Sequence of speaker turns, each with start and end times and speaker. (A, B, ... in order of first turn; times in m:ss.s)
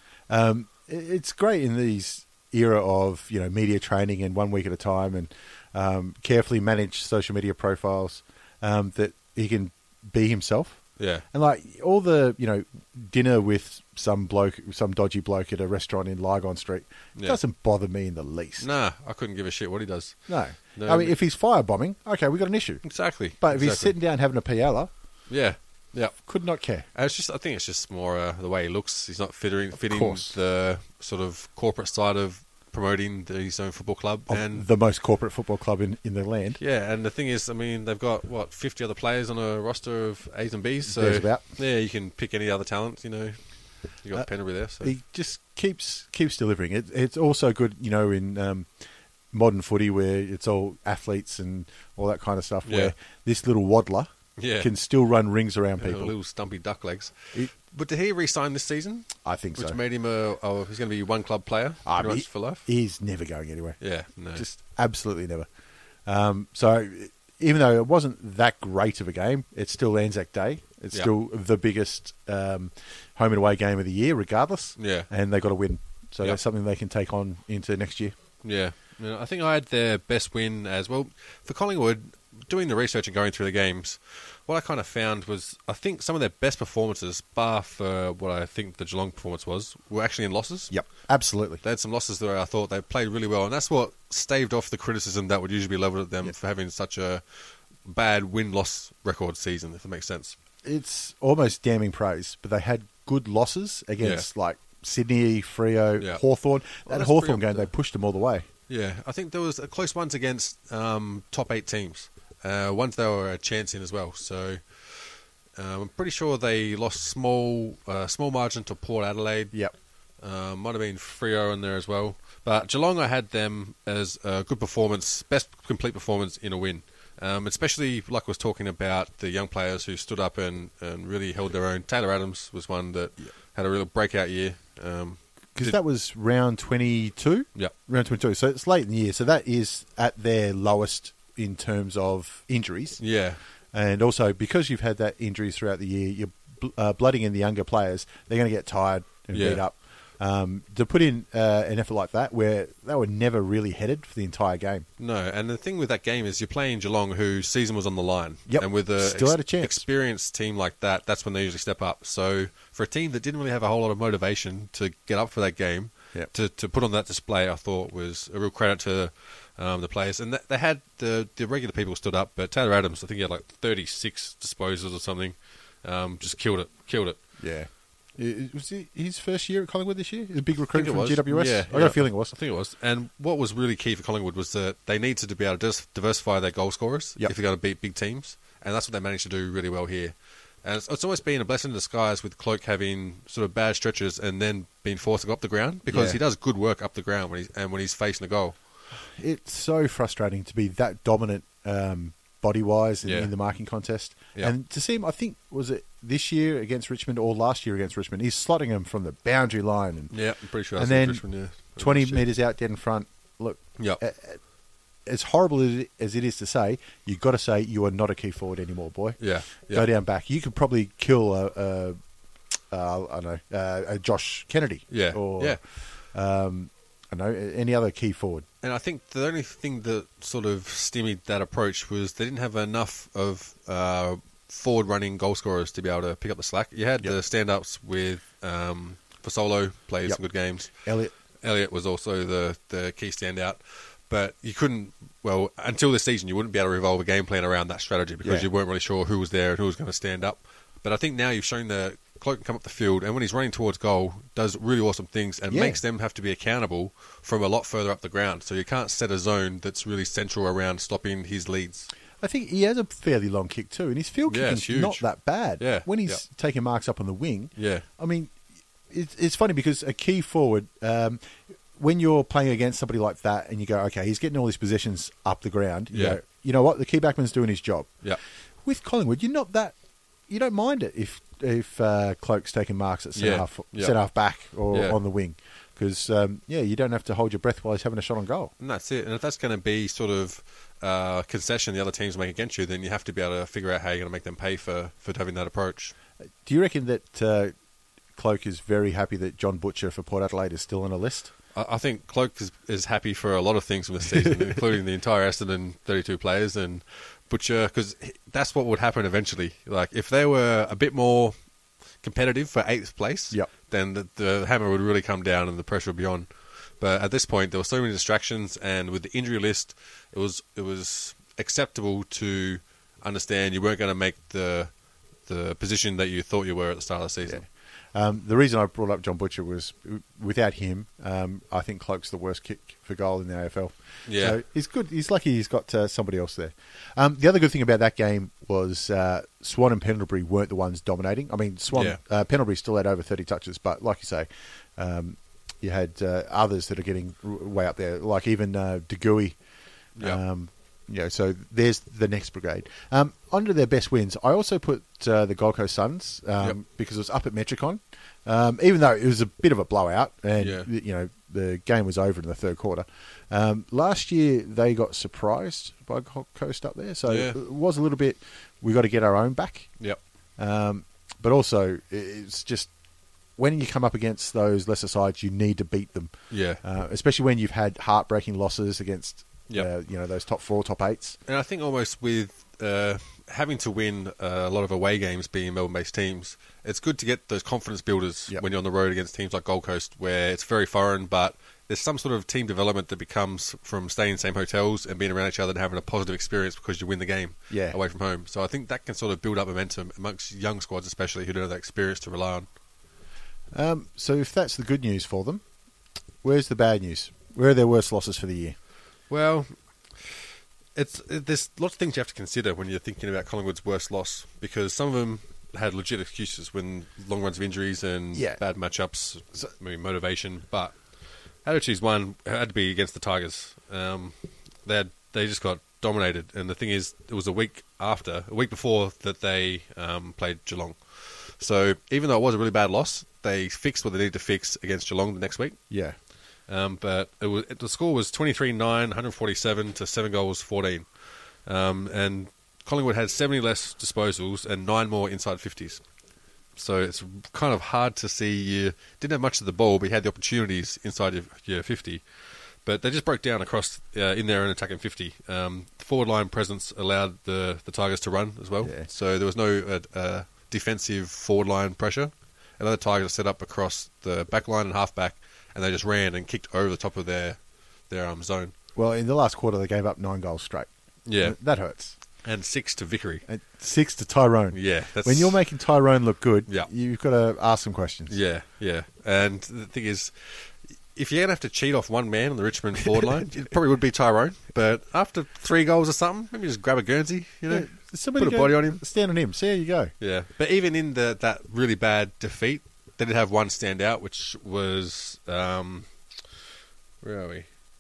0:00.3-0:18.7 A
0:11.0-0:11.2 B
0:18.6-0:21.2 B
0:20.3-0:22.8 A
0:22.8-0:23.9 B
0:23.4-0:24.9 A
0:25.3-0:26.2 B
0:26.3-0:26.9 A
0:26.9-0:34.7 B
0:29.9-0:30.4 A
0:34.3-0:36.6 A
0:36.6-0:43.4 B
0:40.9-0:41.4 A
0:44.0-0:44.9 B
0:44.8-0:48.7 A
0:49.3-0:56.1 A
0:52.7-0:52.9 B
0:54.4-0:54.7 B
0:55.8-1:02.6 B
0:59.2-0:59.8 A
1:01.8-1:03.8 A
1:03.8-1:04.4 B
1:04.3-1:05.5 A
1:06.1-1:18.2 A
1:14.8-1:15.1 B
1:18.4-1:30.9 B
1:30.7-1:31.6 A
1:31.6-1:37.2 B
1:37.8-1:40.4 B
1:40.6-1:48.5 A
1:44.0-1:44.3 B
1:46.8-1:47.7 B
1:48.7-1:59.6 B
2:00.2-2:15.8 B
2:15.6-2:23.0 A
2:23.0-2:23.4 B
2:23.7-2:34.9 A
2:29.3-2:29.6 B
2:35.0-2:57.2 B
2:38.5-2:39.8 A
2:57.4-3:02.3 A
3:00.7-3:18.6 B
3:15.9-3:16.2 A
3:18.9-3:30.1 A
3:23.0-3:23.3 B
3:30.1-3:32.2 B
3:30.8-3:34.4 A
3:35.0-3:42.0 A
3:39.2-3:39.9 B
3:42.7-3:48.5 A
3:44.9-3:45.6 B
3:48.6-4:00.7 B
4:00.8-4:01.1 A
4:01.4-4:21.9 B
4:15.5-4:15.8 A
4:22.2-4:28.3 A
4:24.3-4:25.0 B
4:25.6-4:26.2 B
4:27.6-4:27.9 B
4:28.9-4:31.2 A
4:31.8-4:38.0 A
4:35.9-4:36.2 B
4:38.6-4:39.8 A
4:40.3-4:48.5 A
4:43.2-4:44.0 B
4:44.7-4:45.0 B
4:48.6-4:55.9 B
4:56.4-4:57.5 A
4:58.2-5:01.3 A
5:01.6-5:11.4 B
5:12.0-5:16.3 B
5:16.8-5:24.7 B
5:25.3-5:27.4 B
5:27.2-5:49.4 A
5:34.1-5:34.4 B
5:41.7-5:42.0 B
5:50.0-6:09.8 A
6:00.4-6:00.7 B
6:07.1-6:07.4 B
6:10.4-6:12.7 A
6:13.4-6:21.2 A
6:16.3-6:16.6 B
6:21.3-6:42.5 B
6:37.5-6:37.8 A
6:43.5-6:45.4 A
6:46.2-6:48.6 A
6:49.1-7:00.8 B
6:58.1-6:58.4 A
7:01.4-7:15.6 B
7:15.7-7:16.0 A
7:16.5-7:25.8 B
7:26.6-7:48.5 B
7:38.6-7:38.9 A
7:48.8-7:52.0 A
7:51.1-7:51.4 B
7:52.2-7:53.2 B
7:53.3-7:58.2 A
7:54.5-7:55.4 B
7:58.1-8:08.8 B
8:07.5-8:09.9 A
8:10.0-8:16.3 B
8:17.0-8:17.5 B